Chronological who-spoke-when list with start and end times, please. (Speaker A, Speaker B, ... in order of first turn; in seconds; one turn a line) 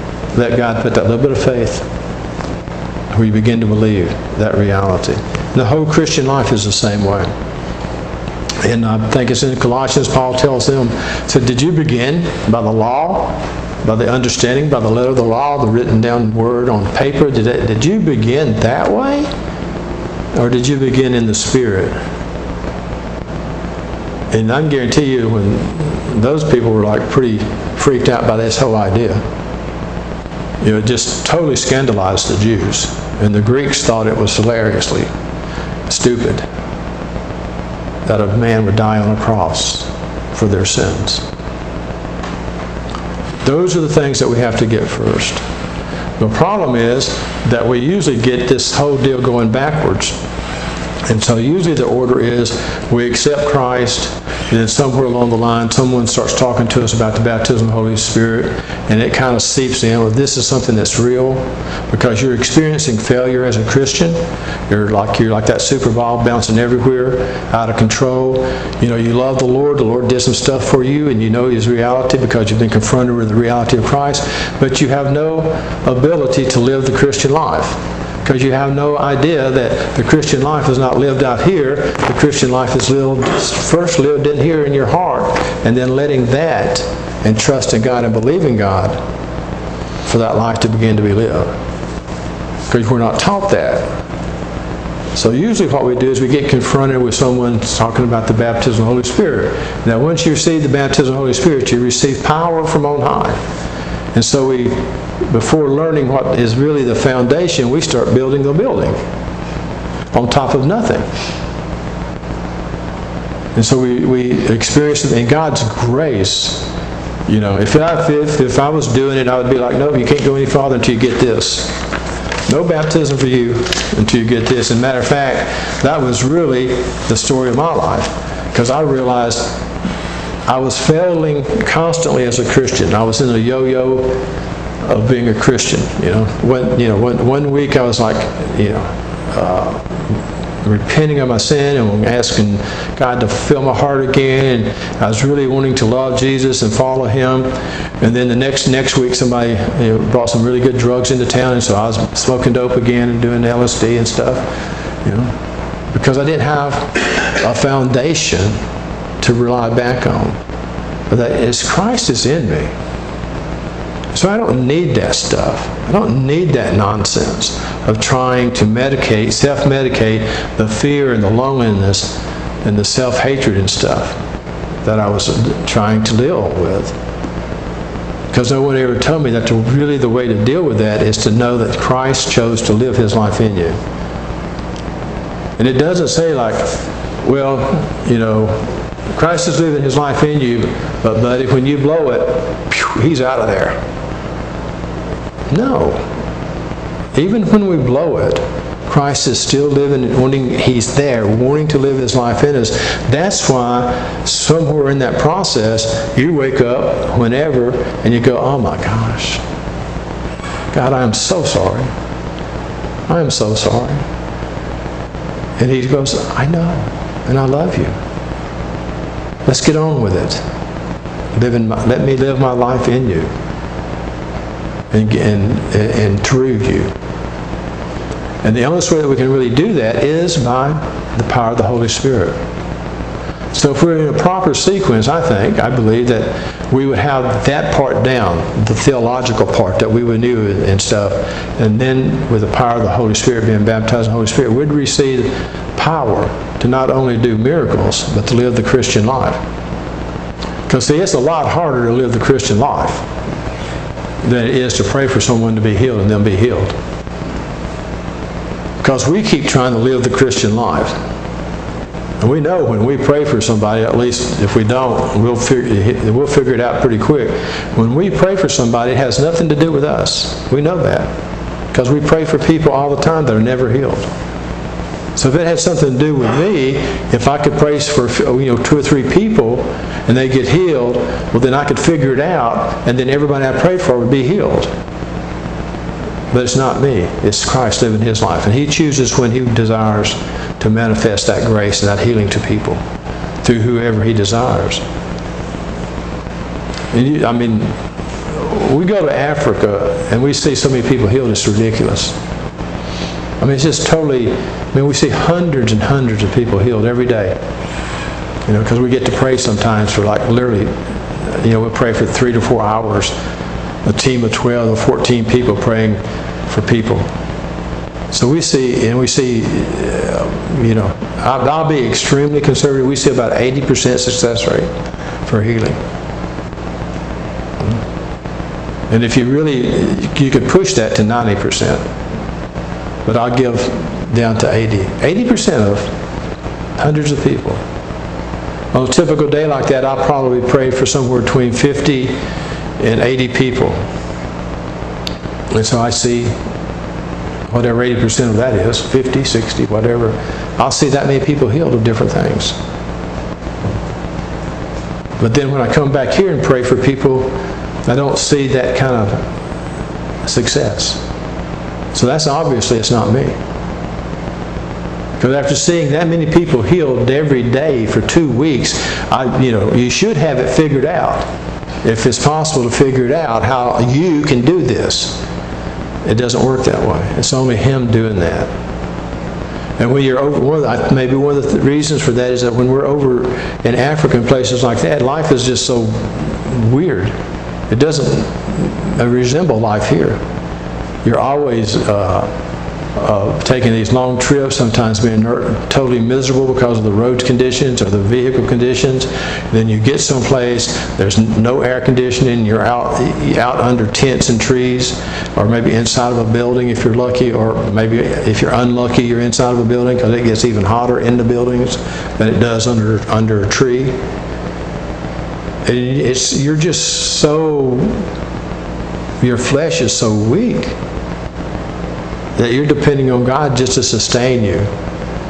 Speaker A: 0.3-1.9
Speaker A: 3.1-7.3
Speaker A: 8.6-19.3
Speaker A: 20.3-22.0
Speaker A: 24.3-29.2
Speaker A: 30.6-35.1
Speaker A: 35.9-36.4
Speaker A: 38.0-41.2
Speaker A: 43.4-45.4
Speaker A: 46.2-50.2
Speaker A: 51.1-89.0
Speaker A: 90.0-91.5
Speaker A: 92.7-93.9
Speaker A: 95.1-103.4
Speaker A: 104.1-109.0
Speaker A: 110.1-111.0
Speaker A: 113.5-116.7
Speaker A: 117.3-121.8
Speaker A: 122.5-129.6
Speaker A: 130.5-134.2
Speaker A: 134.8-154.5
Speaker A: 155.0-155.3
Speaker A: 155.9-158.6
Speaker A: 159.2-160.4
Speaker A: 161.1-162.7
Speaker A: 164.1-174.2
Speaker A: 174.8-176.9
Speaker A: 178.3-183.8
Speaker A: 185.6-193.8
Speaker A: 195.5-196.1
Speaker A: 197.1-209.4
Speaker A: 210.7-211.9
Speaker A: 213.1-214.0
Speaker A: 215.6-217.9
Speaker A: 219.4-220.4
Speaker A: 221.3-223.3
Speaker A: 224.9-226.9
Speaker A: 228.4-232.4
Speaker A: 233.5-249.4
Speaker A: 250.7-253.0
Speaker A: 254.2-256.8
Speaker A: 258.8-261.0
Speaker A: 262.2-271.1
Speaker A: 271.7-274.1
Speaker A: 275.1-284.7
Speaker A: 286.3-292.8
Speaker A: 293.4-294.8
Speaker A: 296.9-297.8
Speaker A: 298.3-302.1
Speaker A: 303.4-307.4
Speaker A: 308.4-313.1
Speaker A: 313.8-317.1
Speaker A: 318.1-324.7
Speaker A: 325.2-325.8
Speaker A: 328.9-331.9
Speaker A: 333.0-335.9
Speaker A: 336.8-337.6
Speaker A: 338.7-342.2
Speaker A: 342.8-343.8
Speaker A: 345.5-346.4
Speaker A: 347.5-352.6
Speaker A: 355.2-359.3
Speaker A: 360.2-361.0
Speaker A: 361.9-363.4
Speaker A: 365.2-371.2
Speaker A: 371.8-375.2
Speaker A: 376.0-378.5
Speaker A: 379.8-387.1
Speaker A: 387.7-390.2
Speaker A: 391.0-392.3
Speaker A: 392.9-414.0
Speaker A: 415.6-418.1
Speaker A: 419.2-420.8
Speaker A: 422.4-424.7